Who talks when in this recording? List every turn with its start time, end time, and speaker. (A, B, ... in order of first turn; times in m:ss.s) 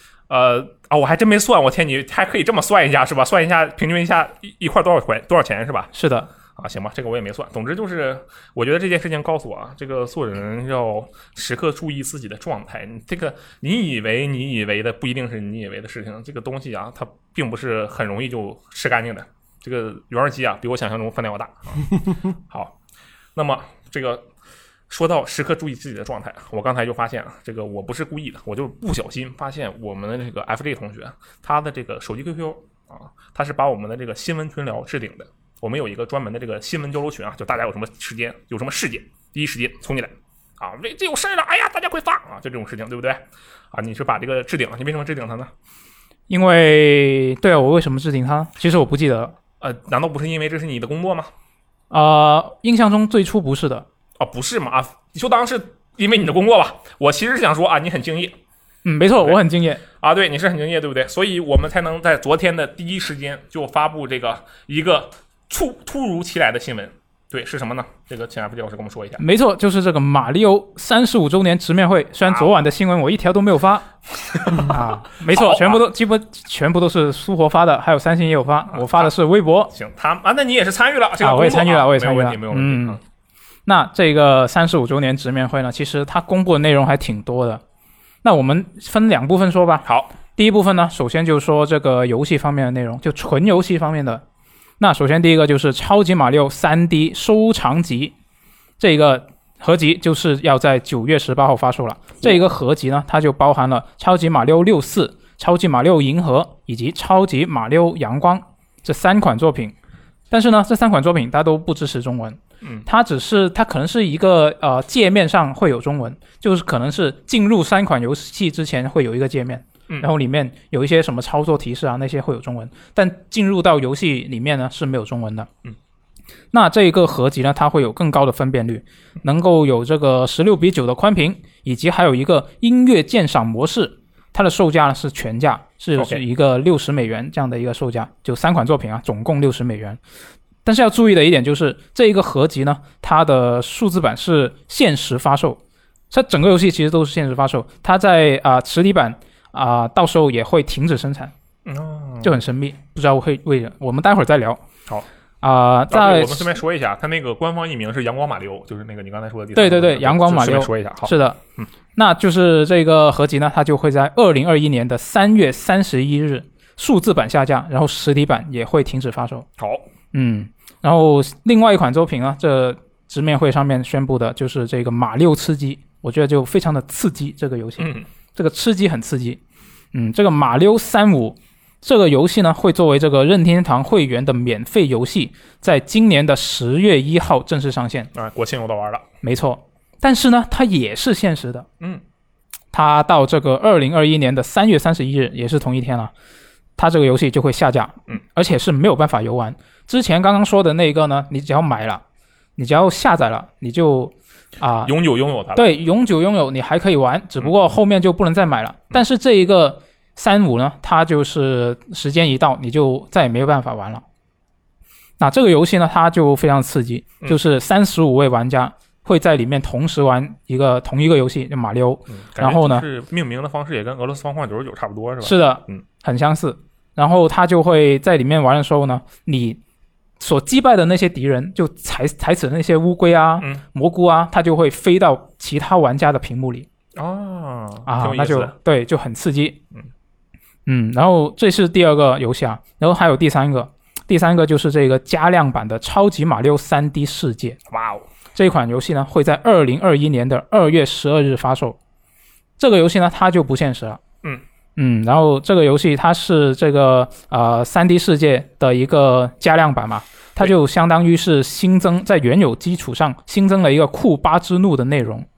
0:00.3-0:05.9 A
0:05.9-0:06.3 B
0:06.5-0:22.7 A
0:23.4-0:24.3 A
0:24.9-0:45.5 A
0:46.3-0:49.3 B
0:49.6-0:51.3 A
0:51.9-0:53.8 B
0:54.2-0:58.4 A
0:58.8-0:59.8 B
1:00.0-1:09.2 A
1:09.2-1:13.9 B
1:14.3-1:15.8 A
1:14.5-1:19.7 B
1:18.7-1:19.1 A
1:19.7-1:23.0 A
1:21.2-1:23.0 B
1:23.6-1:27.6 B
1:28.2-1:34.2 B
1:29.8-1:30.1 A
1:34.8-1:38.1 B
1:38.8-1:49.7 B
1:50.3-2:05.5 B
2:06.5-2:20.0 B
2:16.0-2:16.2 A
2:20.6-2:25.6 B
2:26.1-2:31.3 B
2:31.6-2:32.4 A
2:32.2-2:34.6 B
2:35.4-2:36.6 B
2:35.9-2:41.7 A
2:39.5-2:41.4 B
2:42.0-2:49.4 B
2:49.6-2:49.9 A
2:50.1-2:59.4 B
2:57.8-2:58.0 A
2:59.9-3:08.1 B
3:08.1-3:09.1 A
3:09.2-3:11.7 B
3:12.7-3:16.1 B
3:16.8-3:22.0 B
3:22.6-3:24.9 B
3:24.8-3:25.7 A
3:25.5-3:34.0 B
3:35.2-3:42.8 B
3:42.1-3:45.8 A
3:45.2-3:49.6 B
3:50.2-3:56.7 B
3:56.9-3:58.5 A
3:57.8-3:59.6 B
4:00.6-4:07.6 B
4:07.7-4:08.1 A
4:08.3-4:11.8 B
4:12.6-4:14.0 B
4:14.8-4:25.3 B